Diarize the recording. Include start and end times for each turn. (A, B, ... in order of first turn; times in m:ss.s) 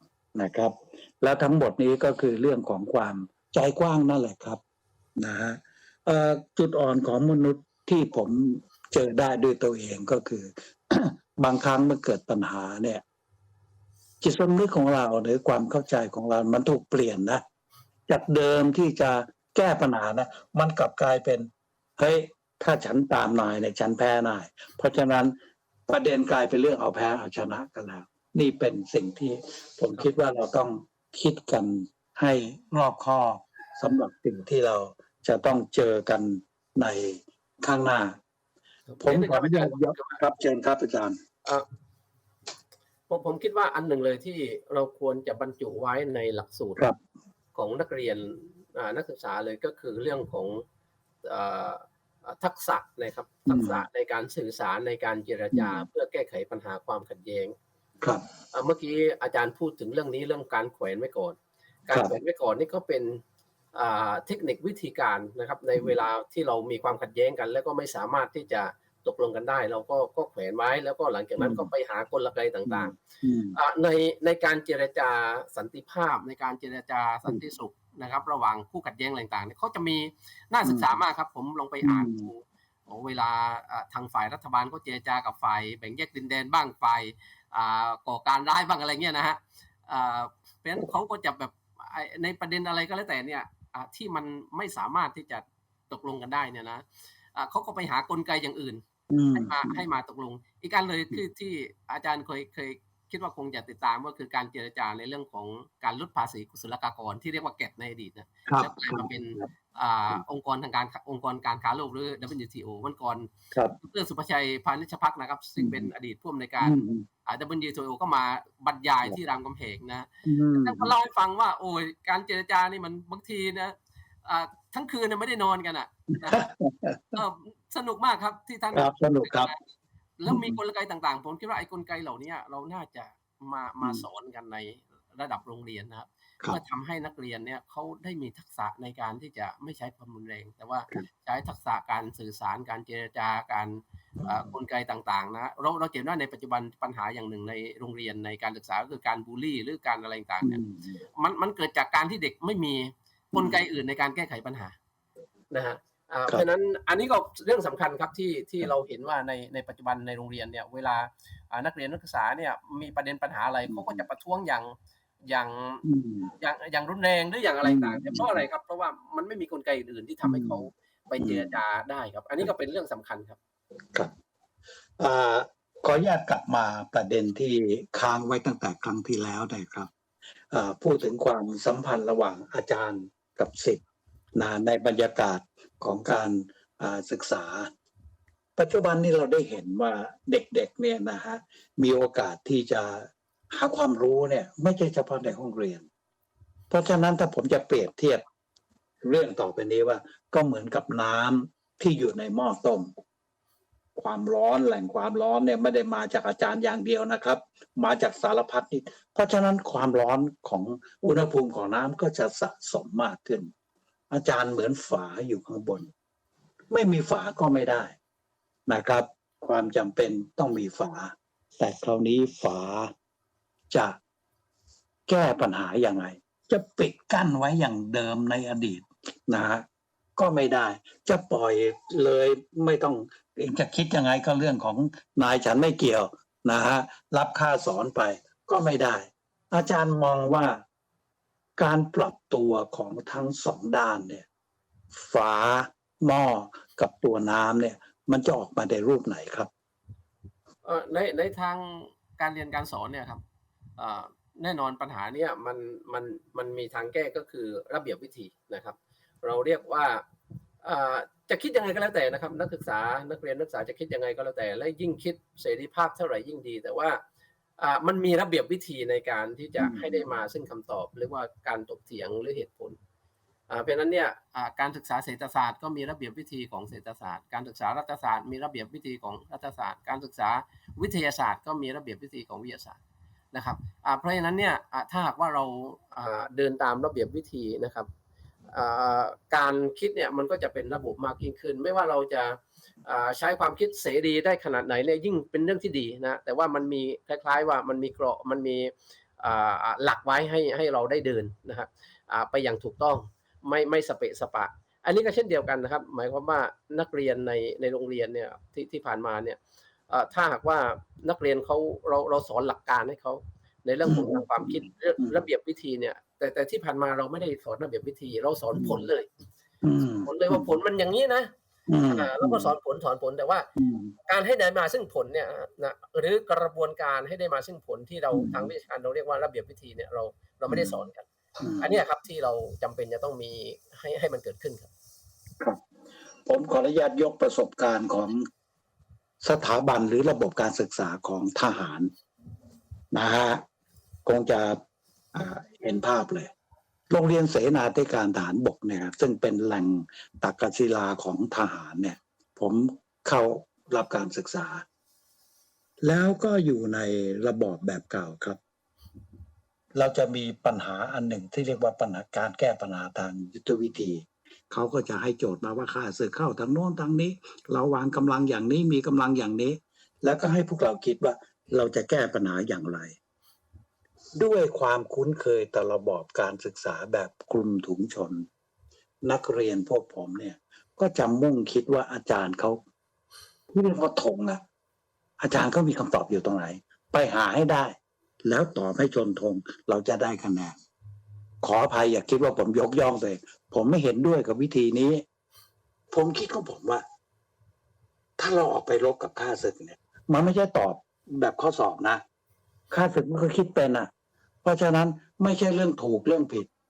0:00.4-0:04.6 A
0:05.2-0:13.0 A
0:14.2-0:17.4 A
0:18.1-0:25.4 A
0:25.9-0:38.2 A
0:38.9-0:40.2 B
0:39.0-0:41.2 A
0:43.1-0:46.8 B
0:47.6-0:50.6 B
0:51.2-0:57.5 B
0:53.5-0:53.8 A
0:55.5-0:55.8 A
0:58.5-1:01.4 B
1:01.9-1:03.2 B
1:01.9-1:02.2 A
1:03.7-1:13.0 B
1:11.4-1:11.7 A
1:12.7-1:13.6 A
1:13.5-1:38.8 B
1:21.8-1:22.3 A
1:39.1-1:39.8 A
1:39.3-2:03.7 B
1:48.5-1:49.5 A
1:55.6-1:55.9 A
1:56.6-1:57.1 A
2:00.2-2:00.9 A
2:04.2-2:06.5 B
2:06.3-2:07.2 A
2:07.1-2:09.6 B
2:08.7-2:09.5 A
2:10.2-2:30.6 B
2:10.3-2:10.6 A
2:24.2-2:24.5 A
2:30.4-2:31.0 A
2:31.2-2:34.8 B
2:33.3-2:33.6 A
2:35.5-2:44.7 B
2:43.7-2:44.0 A
2:45.3-2:45.8 B
2:45.8-2:46.3 A
2:46.4-2:53.4 B
2:47.6-2:48.4 A
2:50.2-2:50.6 A
2:51.2-2:51.6 A
2:55.0-2:59.9 A
3:00.5-3:03.8 A
3:04.4-3:07.7 A
3:08.6-3:15.9 A
3:16.7-3:18.2 A
3:19.0-3:22.9 A
3:24.0-3:33.5 A
3:34.1-3:35.9 A
3:36.7-3:37.9 A
3:38.7-3:42.9 A
3:43.7-3:44.0 A
3:45.1-3:49.6 A
3:50.2-4:00.6 A
4:01.6-4:04.3 A
4:04.9-4:09.5 A
4:10.6-4:13.2 B
4:13.8-4:20.0 B
4:20.6-4:27.0 B
4:27.6-4:32.8 B
4:29.6-4:30.0 A
4:33.5-4:42.8 B
4:43.3-4:47.9 B
4:48.5-5:19.1 B
5:13.9-5:15.1 A
5:18.6-5:18.8 A
5:19.6-5:20.5 A
5:20.0-5:21.3 B
5:21.7-5:22.5 A
5:21.9-5:23.5 B
5:23.6-5:23.9 A
5:24.1-5:31.1 B
5:28.1-5:28.5 A
5:30.5-5:30.8 A
5:31.4-5:31.8 A
5:31.6-5:34.7 B
5:36.3-5:38.3 A
5:39.2-5:41.9 A
5:42.9-5:43.4 A
5:44.0-5:44.6 A
5:45.1-5:46.3 A
5:46.9-5:54.6 A
5:55.8-5:58.4 A
5:59.8-6:13.0 A
6:14.2-6:18.2 A
6:19.0-6:22.6 A
6:23.5-6:24.4 A
6:25.2-6:30.6 A
6:31.4-6:35.0 A
6:35.9-6:36.8 A
6:38.2-6:42.0 A
6:42.7-6:43.9 A
6:44.4-6:46.5 A